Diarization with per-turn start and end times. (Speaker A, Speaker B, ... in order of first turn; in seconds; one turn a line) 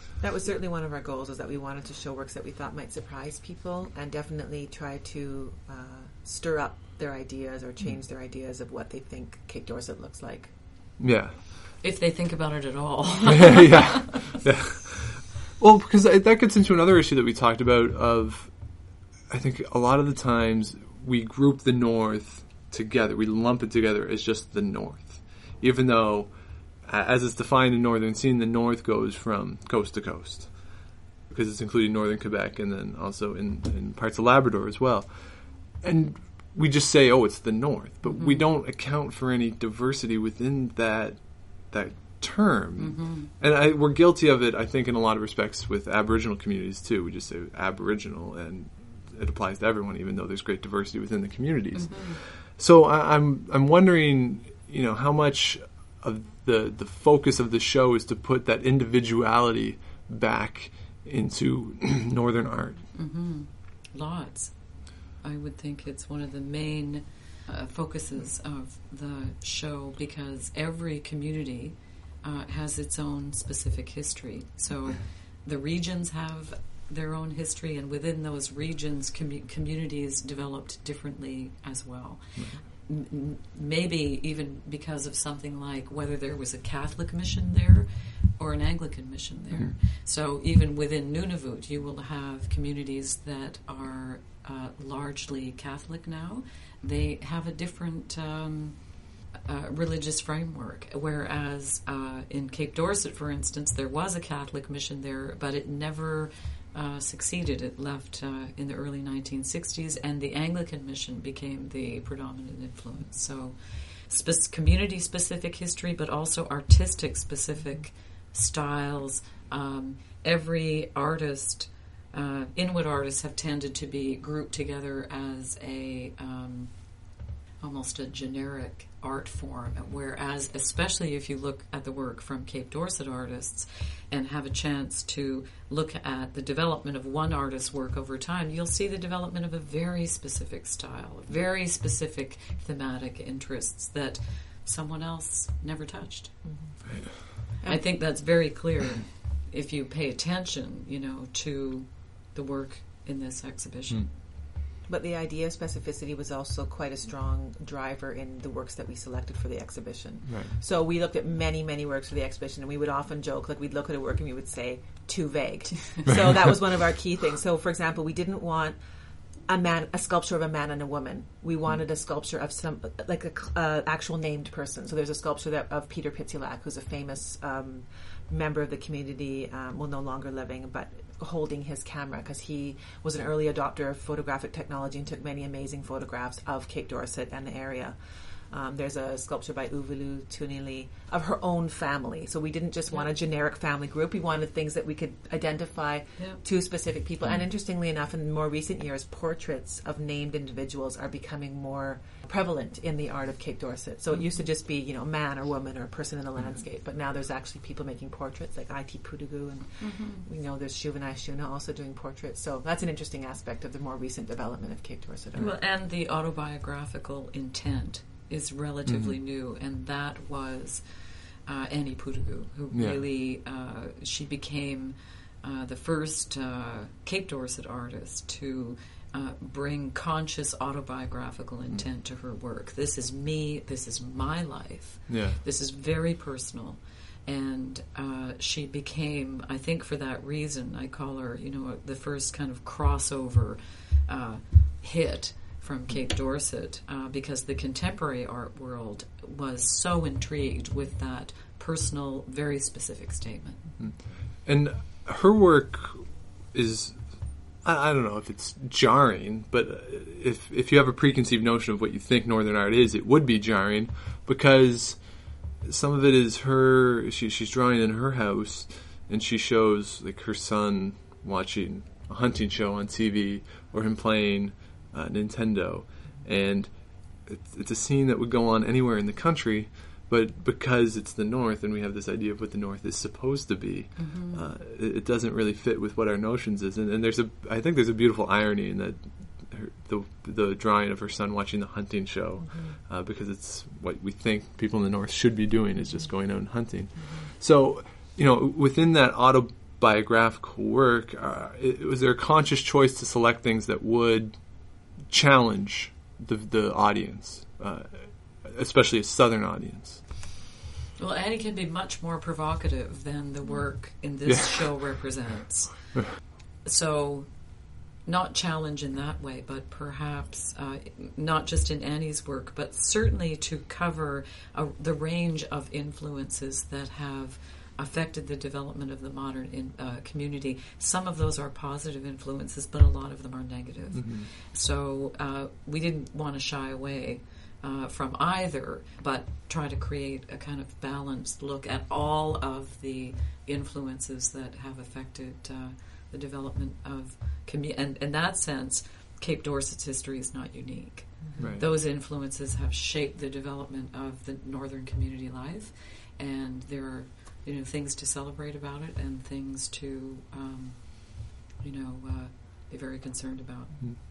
Speaker A: 0.2-10.5
Speaker B: 11.0-11.4
Speaker C: 11.8-14.4
Speaker B: 13.3-18.5
Speaker B: 19.3-62.9
Speaker C: 38.1-38.4
Speaker C: 42.8-43.3
Speaker C: 51.7-52.2
Speaker C: 62.9-146.4
Speaker A: 146.4-148.4
Speaker C: 147.7-154.1
Speaker A: 154.8-168.8
Speaker B: 160.3-160.5
Speaker A: 169.5-187.9
Speaker A: 188.5-215.6
Speaker C: 209.8-210.2
Speaker C: 215.4-253.7
Speaker B: 218.8-219.2
Speaker B: 222.7-223.0
Speaker B: 235.1-235.4
Speaker B: 253.8-310.0
Speaker C: 284.0-284.5
Speaker A: 292.4-292.8
Speaker C: 311.0-363.8
Speaker B: 314.2-314.8
Speaker B: 333.9-334.3
Speaker A: 351.2-351.5
Speaker B: 351.4-351.7